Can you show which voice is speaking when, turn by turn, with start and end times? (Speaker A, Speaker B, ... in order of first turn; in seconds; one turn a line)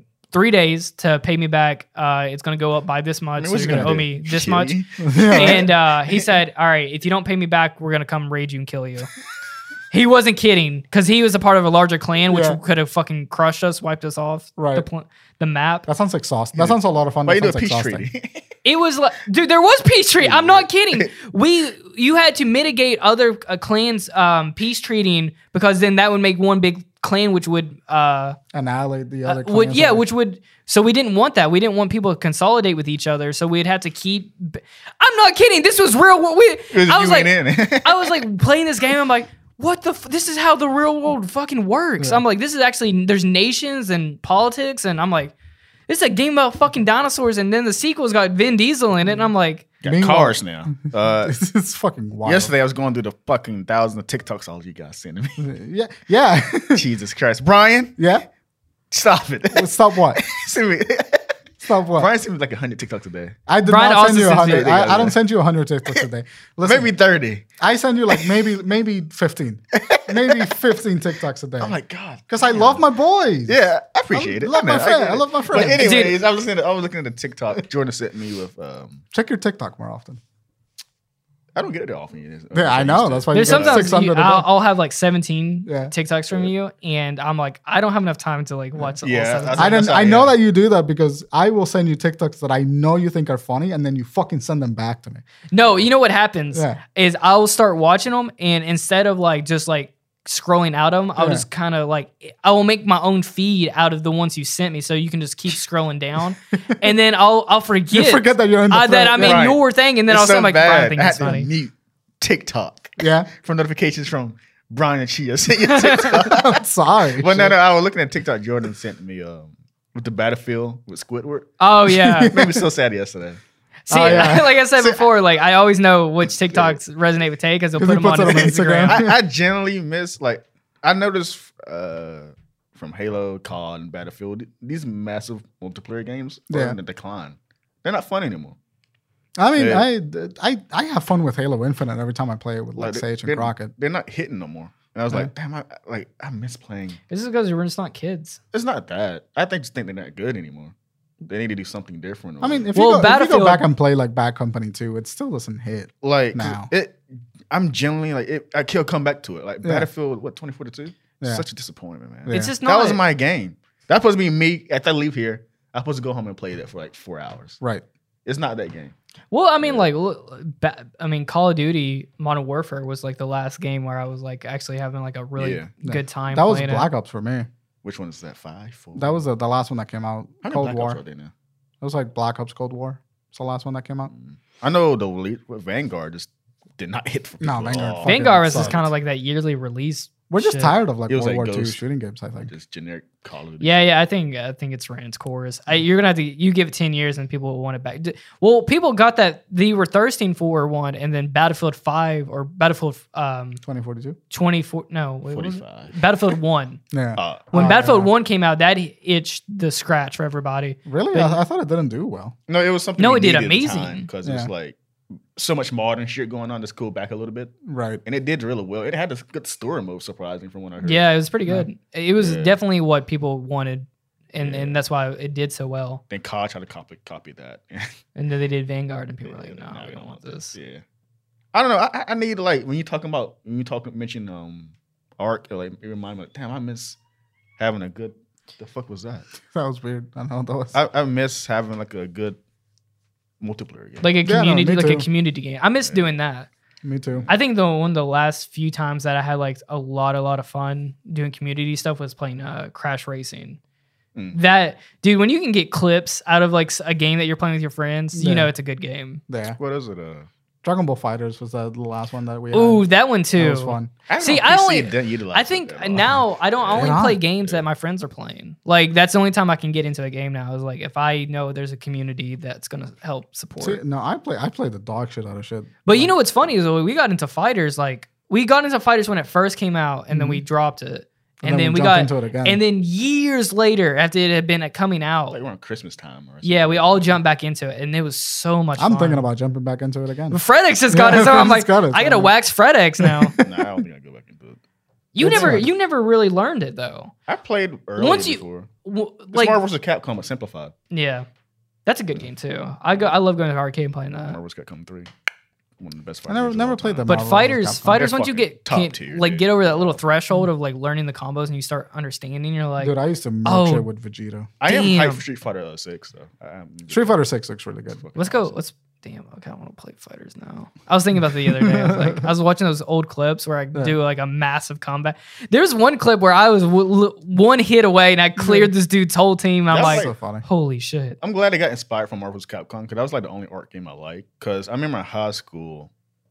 Speaker A: 0.3-4.8
Speaker B: 3.4-6.3
Speaker C: 3.7-3.9
Speaker C: 5.0-5.7
Speaker A: 5.3-9.1
Speaker A: 9.9-15.8
Speaker C: 12.3-12.6
Speaker C: 14.6-14.8
Speaker C: 15.8-18.1
Speaker B: 16.5-18.4
Speaker A: 18.6-28.4
Speaker B: 20.2-21.1
Speaker C: 28.5-30.0
Speaker A: 29.2-45.3
Speaker B: 36.7-38.2
Speaker A: 45.9-49.6
Speaker B: 49.8-51.4
Speaker C: 49.9-50.4
Speaker C: 51.2-52.5
Speaker B: 52.2-55.5
Speaker C: 55.4-56.8
Speaker B: 56.7-58.0
Speaker C: 58.0-58.2
Speaker B: 58.9-61.4
Speaker C: 59.5-60.2
Speaker C: 61.6-62.1
Speaker B: 61.9-63.4
Speaker C: 63.5-66.9
Speaker A: 63.6-64.7
Speaker B: 64.3-65.2
Speaker B: 66.6-67.4
Speaker C: 67.6-71.8
Speaker B: 69.7-70.5
Speaker B: 71.6-72.8
Speaker C: 72.3-73.6
Speaker B: 73.5-79.0
Speaker C: 74.1-76.0
Speaker A: 75.5-76.2
Speaker C: 79.1-80.2
Speaker B: 81.5-83.9
Speaker C: 82.5-84.5
Speaker A: 83.3-89.8
Speaker C: 85.7-85.9
Speaker B: 89.0-90.3
Speaker C: 89.5-95.2
Speaker A: 95.5-111.5
Speaker C: 96.5-96.8
Speaker C: 101.2-101.4
Speaker C: 107.9-109.5
Speaker B: 109.2-116.6
Speaker C: 113.0-113.3
Speaker A: 115.7-116.2
Speaker C: 116.1-117.5
Speaker B: 117.1-121.6
Speaker A: 121.6-122.3
Speaker C: 121.9-122.7
Speaker B: 122.2-123.4
Speaker A: 123.9-129.0
Speaker C: 123.9-125.0
Speaker B: 124.0-124.4
Speaker B: 126.5-126.8
Speaker C: 127.8-129.2
Speaker B: 128.2-138.6
Speaker C: 136.5-136.8
Speaker C: 139.4-143.7
Speaker B: 139.6-139.8
Speaker B: 142.8-147.0
Speaker A: 147.1-148.4
Speaker B: 148.5-152.7
Speaker C: 152.4-156.7
Speaker A: 152.7-153.6
Speaker B: 156.0-167.6
Speaker C: 159.6-159.9
Speaker C: 162.3-162.5
Speaker A: 162.3-163.0
Speaker B: 168.2-168.9
Speaker A: 169.3-176.9
Speaker B: 169.6-169.9
Speaker B: 175.4-175.7
Speaker C: 175.8-177.5
Speaker B: 177.8-179.2
Speaker C: 178.9-181.0
Speaker B: 180.4-181.3
Speaker C: 181.8-184.1
Speaker B: 184.1-188.9
Speaker C: 187.4-188.8
Speaker A: 188.0-190.8
Speaker C: 190.3-192.5
Speaker B: 191.1-191.8
Speaker B: 192.5-193.9
Speaker A: 193.6-203.6
Speaker C: 203.6-204.2
Speaker A: 204.3-206.8
Speaker B: 205.3-206.3
Speaker C: 206.9-208.1
Speaker B: 207.2-207.6
Speaker A: 207.5-211.4
Speaker C: 210.8-212.3
Speaker B: 212.5-214.8
Speaker A: 213.0-214.1
Speaker C: 214.2-214.5
Speaker B: 215.3-217.5
Speaker C: 217.7-218.0
Speaker B: 218.0-221.1
Speaker A: 220.8-226.0
Speaker B: 222.2-222.6
Speaker B: 224.4-224.8
Speaker B: 226.1-227.9
Speaker A: 228.2-230.5
Speaker B: 229.2-230.8
Speaker B: 231.5-237.0
Speaker B: 237.6-239.3
Speaker C: 239.5-240.8
Speaker B: 240.7-242.4
Speaker B: 243.4-244.1
Speaker A: 244.0-246.5
Speaker C: 244.2-245.1
Speaker C: 246.8-247.3
Speaker A: 247.3-253.6
Speaker A: 254.3-259.2
Speaker C: 258.1-258.5
Speaker C: 259.3-259.6
Speaker B: 259.6-260.3
Speaker C: 260.6-263.9
Speaker A: 262.5-273.8
Speaker B: 264.1-267.6
Speaker C: 266.7-267.2
Speaker C: 273.6-276.1
Speaker A: 275.8-285.4
Speaker C: 280.1-280.4
Speaker C: 281.4-282.6
Speaker B: 285.3-287.2
Speaker A: 286.4-289.2
Speaker C: 288.8-292.3
Speaker A: 290.3-293.4
Speaker C: 293.0-293.8
Speaker B: 293.4-294.6
Speaker A: 295.1-297.1
Speaker C: 295.2-295.7
Speaker B: 297.3-298.7
Speaker A: 297.9-299.6
Speaker B: 299.3-300.7
Speaker A: 300.9-301.3
Speaker A: 301.9-304.4
Speaker B: 304.2-305.1
Speaker B: 305.8-307.2
Speaker C: 306.3-308.0
Speaker A: 307.1-313.9
Speaker B: 307.9-310.0
Speaker C: 312.8-314.5
Speaker B: 314.6-317.2
Speaker A: 314.6-315.2
Speaker C: 316.9-318.0
Speaker B: 317.9-318.5
Speaker A: 318.1-331.2
Speaker C: 321.5-322.3
Speaker C: 328.4-328.7
Speaker B: 329.7-330.1
Speaker C: 329.8-330.4
Speaker B: 331.2-335.9